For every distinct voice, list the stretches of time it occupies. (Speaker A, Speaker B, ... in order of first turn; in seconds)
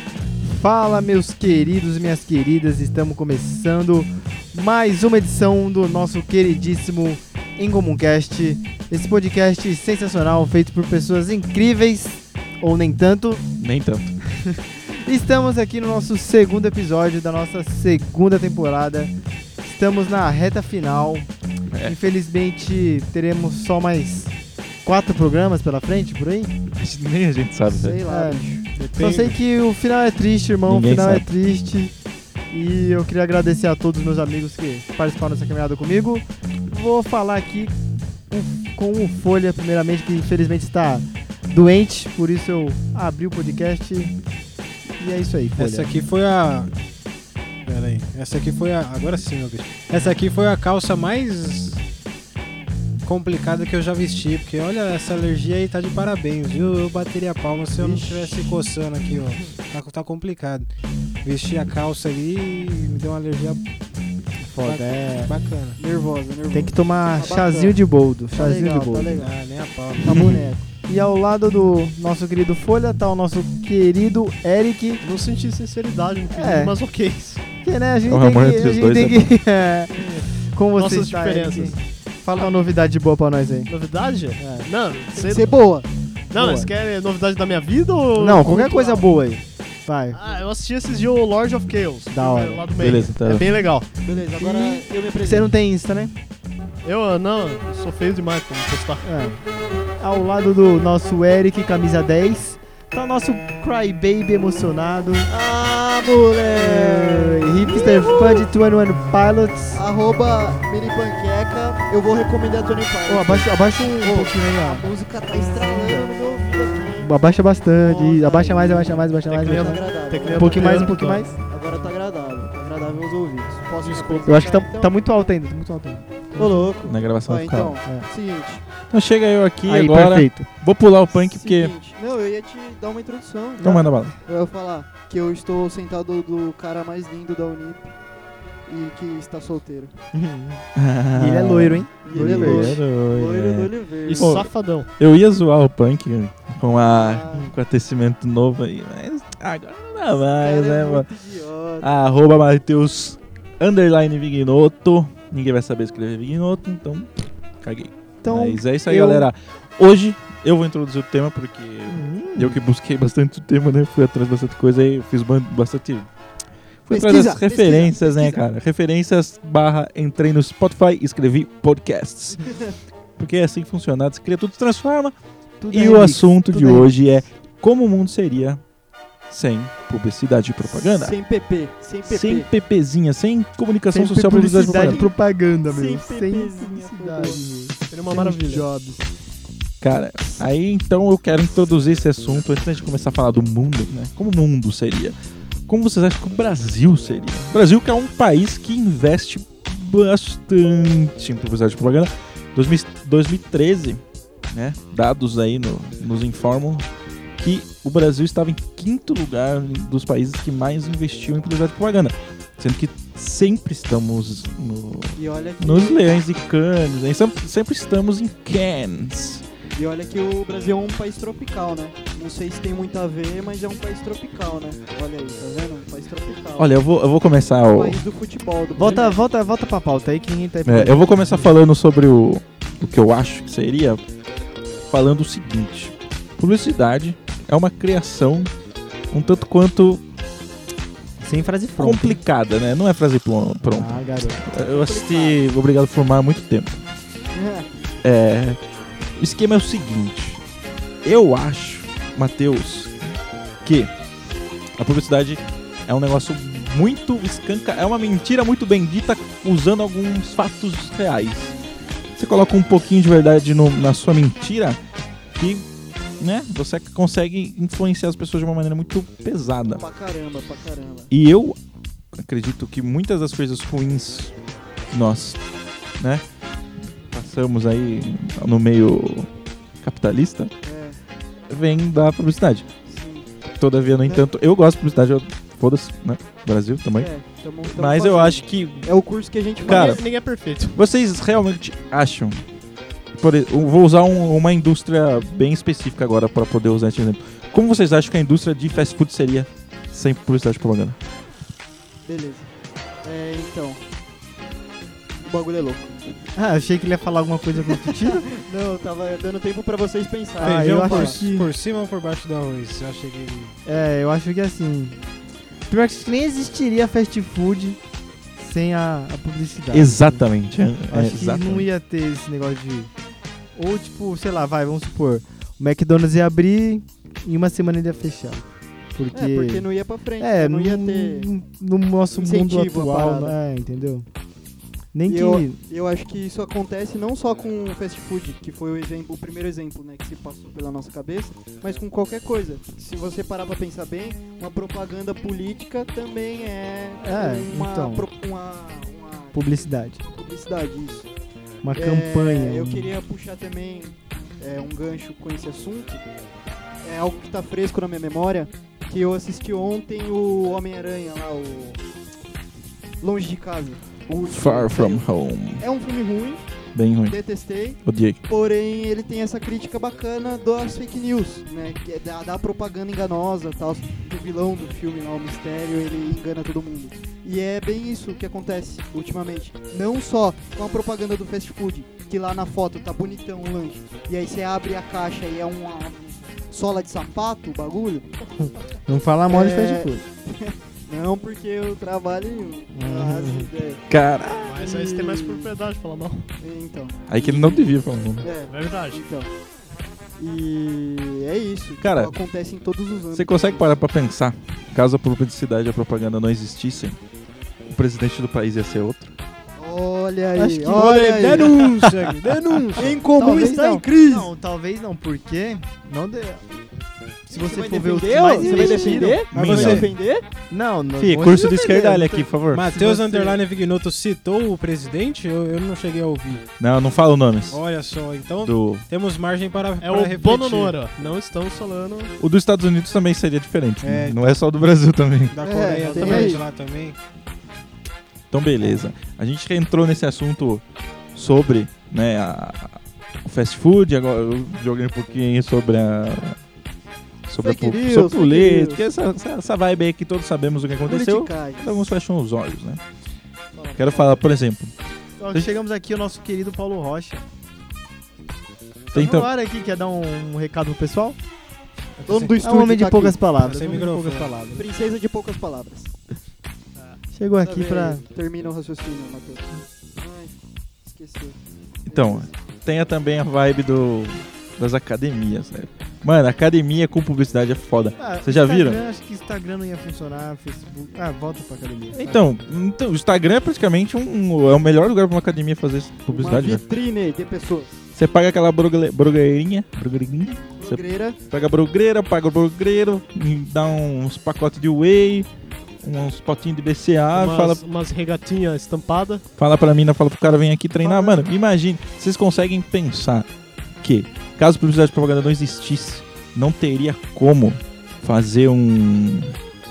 Speaker A: 0.4-13.4, 14.3-19.1, 19.6-21.3, 21.8-26.5, 28.0-28.4, 28.9-31.9, 32.5-37.7, 38.3-44.2, 45.0-45.9, 64.4-65.3, 66.5-69.3, 70.8-75.0, 76.3-76.8, 77.6-83.7, 84.4-84.7, 86.3-86.7, 88.2-90.2, 92.1-93.0, 94.4-96.2, 99.0-99.4, 100.0-105.3, 106.5-109.8, 113.1-114.9, 115.6-116.1, 117.0-121.3, 124.2-126.7, 129.6-130.5, 133.6-133.9, 140.1-142.8, 158.2-159.3, 161.9-162.6, 175.6-176.9, 183.9-189.1, 228.8-231.5, 241.2-242.2, 243.6-244.4, 306.4-308.3, 310.4-311.5, 313.6-315.0, 315.7-317.8, 318.4-320.2, 320.9-322.9, 323.6-328.4, 329.0-329.7, 330.2-334.1, 334.9-335.6, 347.0-348.1, 349.3-350.0, 351.6-353.0, 388.9-390.0, 392.8-393.5, 413.1-416.4, 417.3-419.2, 420.5-423.4, 435.9-436.3, 455.2-457.2, 458.9-461.2, 462.0-464.6, 467.1-468.0, 478.0-482.2
Speaker B: 13.6-14.2, 26.8-28.0, 30.7-31.2, 78.1-79.2, 92.8-93.5, 126.9-127.8, 128.9-131.7, 133.6-134.2, 140.8-151.1, 151.8-166.1, 166.8-172.5, 173.2-175.2, 175.7-178.6, 179.3-181.1, 182.1-185.0, 189.8-195.2, 195.7-206.9, 207.4-219.4, 226.6-228.0, 230.7-234.0, 234.9-238.5, 239.1-240.0, 241.8-246.8, 248.0-248.6, 249.2-250.4, 251.0-253.0, 253.6-253.9, 254.8-261.6, 262.2-264.8, 265.4-265.7, 266.2-269.8, 271.1-271.6, 272.2-274.3, 274.9-275.4, 276.0-276.2, 277.1-279.3, 279.8-280.5, 281.5-282.7, 283.6-287.1, 287.6-288.9, 289.6-290.0, 290.7-292.4, 293.2-301.0, 319.7-321.6, 364.3-365.6, 366.7-367.2, 367.9-368.2, 393.9-394.6, 397.1-398.2, 401.8-402.1, 403.1-407.0, 407.7-409.1, 411.6-412.3, 418.5-419.9, 421.0-422.8, 426.6-427.6, 428.4-428.9, 432.2-435.4, 438.3-440.6, 441.1-446.4, 447.3-452.8, 453.8-454.7, 458.9-459.3, 471.9-478.8, 481.9-486.6, 487.9-495.3, 495.8-497.6, 499.4-503.3, 503.8-509.4
Speaker C: 27.7-28.7, 57.7-58.6, 65.8-67.8, 68.3-69.3, 70.0-70.7, 85.2-85.9, 94.0-95.5, 105.3-108.5, 109.7-117.1, 118.2-125.0, 126.3-128.6, 131.1-137.9, 138.7-139.9, 142.0-144.4, 146.6-147.5, 150.4-152.0, 166.9-168.4, 172.3-172.8, 180.6-182.5, 184.7-185.1, 185.7-187.4, 215.2-216.2, 219.8-226.7, 227.7-229.2, 244.5-245.4, 247.3-247.7, 269.6-271.1, 280.6-281.0, 282.9-283.3, 287.0-290.0, 302.1-302.5, 303.0-303.9, 305.2-306.1, 307.6-311.3, 329.1-331.3, 332.1-333.4, 335.1-349.5, 350.1-351.1, 351.7-356.1, 356.8-361.8, 363.0-365.1, 365.6-366.4, 367.1-388.1, 389.3-393.8, 394.6-395.5, 396.4-399.3, 400.2-403.7, 409.6-411.6, 412.7-414.3, 417.3-420.2, 435.4-436.4, 447.4-448.8, 450.8-451.8, 453.6-454.3, 462.1-463.2, 464.5-465.9, 467.4-472.3, 486.1-487.7, 490.6-491.2
Speaker D: 28.8-29.4, 45.6-46.7, 47.7-51.8, 53.0-60.7, 61.2-63.6, 64.6-65.8, 69.2-70.4, 123.8-124.2, 310.4-313.6, 410.4-412.9, 418.2-419.9, 422.5-426.4, 427.5-430.8, 433.8-434.4, 435.3-437.0, 463.4-464.3
Speaker E: 75.0-77.4, 80.8-81.8, 83.7-85.6, 86.3-89.1, 90.1-93.9, 96.8-99.1, 117.8-118.5, 119.3-121.3, 123.9-124.2, 144.1-144.9, 187.9-188.7, 289.6-290.8, 394.4-396.3, 398.5-399.0, 429.8-432.1, 497.1-499.2